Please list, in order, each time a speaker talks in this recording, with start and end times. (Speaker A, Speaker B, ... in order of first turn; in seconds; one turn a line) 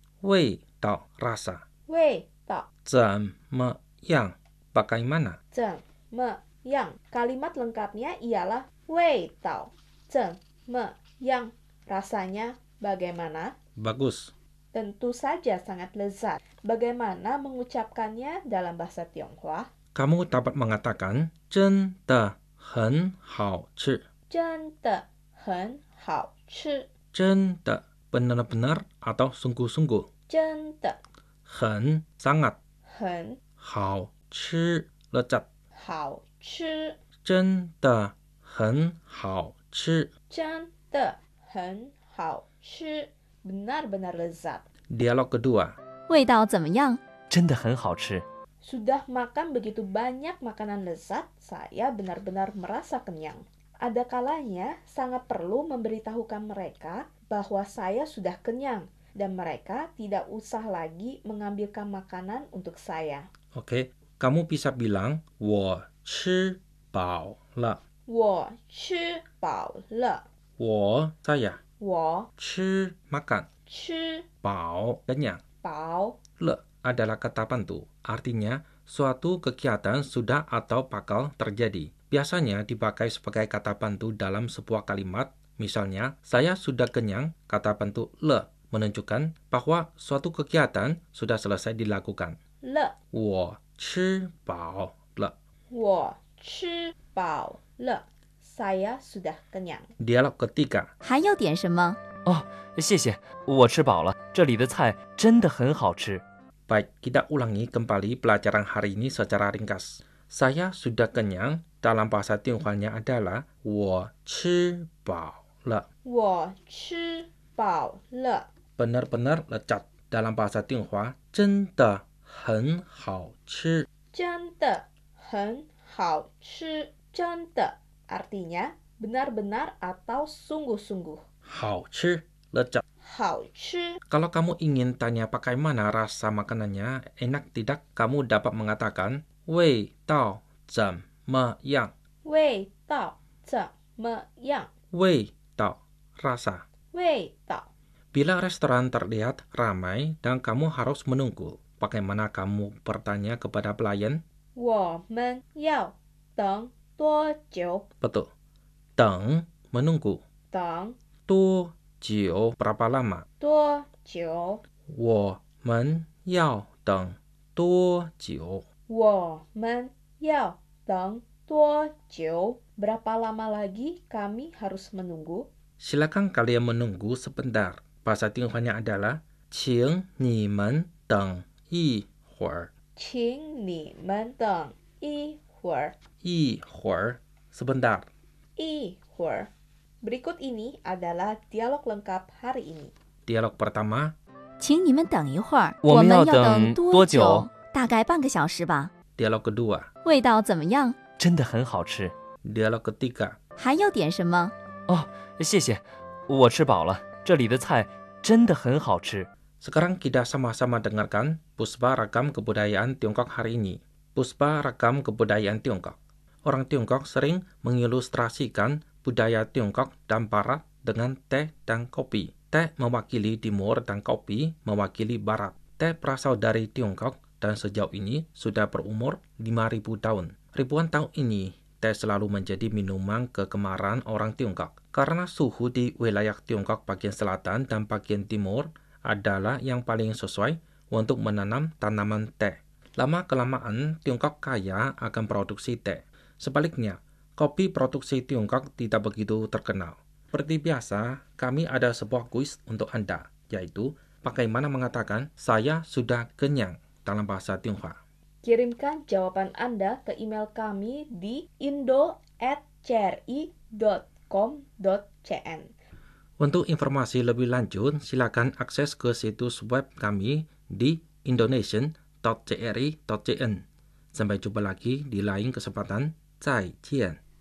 Speaker A: 0.2-1.6
Speaker B: 1.9-2.7
Speaker A: 2.9-5.4
Speaker B: 5.5-13.6
Speaker A: 13.8-14.3
Speaker B: 14.7-19.7
Speaker A: 19.9-24.1
Speaker B: 24.3-26.9
Speaker A: 27.1-30.1
Speaker B: 30.3-31.0
Speaker A: 31.5-32.6
Speaker B: 32.9-33.4
Speaker A: 33.6-35.5
Speaker B: 35.8-37.0
Speaker A: 37.2-40.1
Speaker B: 40.3-44.7
Speaker A: 44.9-45.7
Speaker C: 46.1-47.0
Speaker D: 47.3-48.2
Speaker B: 48.6-63.3
Speaker A: 63.5-67.8
Speaker B: 68.1-70.2
Speaker A: 70.6-71.6
Speaker B: 71.8-72.3
Speaker A: 72.4-73.5
Speaker B: 73.7-74.3
Speaker A: 74.4-75.4
Speaker B: 75.6-76.2
Speaker A: 76.4-92.4
Speaker B: 92.6-93.0
Speaker A: 93.1-95.3
Speaker B: 95.7-99.9
Speaker A: 100.0-100.9
Speaker C: 101.0-102.0
Speaker D: 102.3-106.2
Speaker A: 106.7-115.9
Speaker B: 116.0-118.5
Speaker A: 118.8-123.9
Speaker B: 124.1-131.2
Speaker A: 131.5-132.8
Speaker B: 133.0-134.0
Speaker A: 134.1-141.9
Speaker B: 142.2-144.7
Speaker A: 144.9-146.6
Speaker B: 146.9-147.7
Speaker A: 148.1-154.2
Speaker B: 154.6-157.9
Speaker A: 158.0-158.3
Speaker A: 159.0-160.2
Speaker B: 160.5-161.0
Speaker A: 161.3-163.3
Speaker B: 163.4-164.6
Speaker A: 164.9-168.6
Speaker B: 168.9-175.5
Speaker A: 175.8-182.7
Speaker B: 183.0-185.9
Speaker A: 186.2-188.1
Speaker B: 188.6-189.5
Speaker B: 190.0-192.9
Speaker A: 193.3-194.1
Speaker C: 194.6-198.9
Speaker D: 195.8-197.5
Speaker A: 199.2-199.9
Speaker C: 200.1-201.0
Speaker D: 201.2-202.1
Speaker A: 202.4-203.3
Speaker C: 203.6-204.5
Speaker D: 204.9-209.3
Speaker A: 209.6-258.0
Speaker B: 258.4-265.7
Speaker A: 266.4-273.6
Speaker A: 274.1-277.2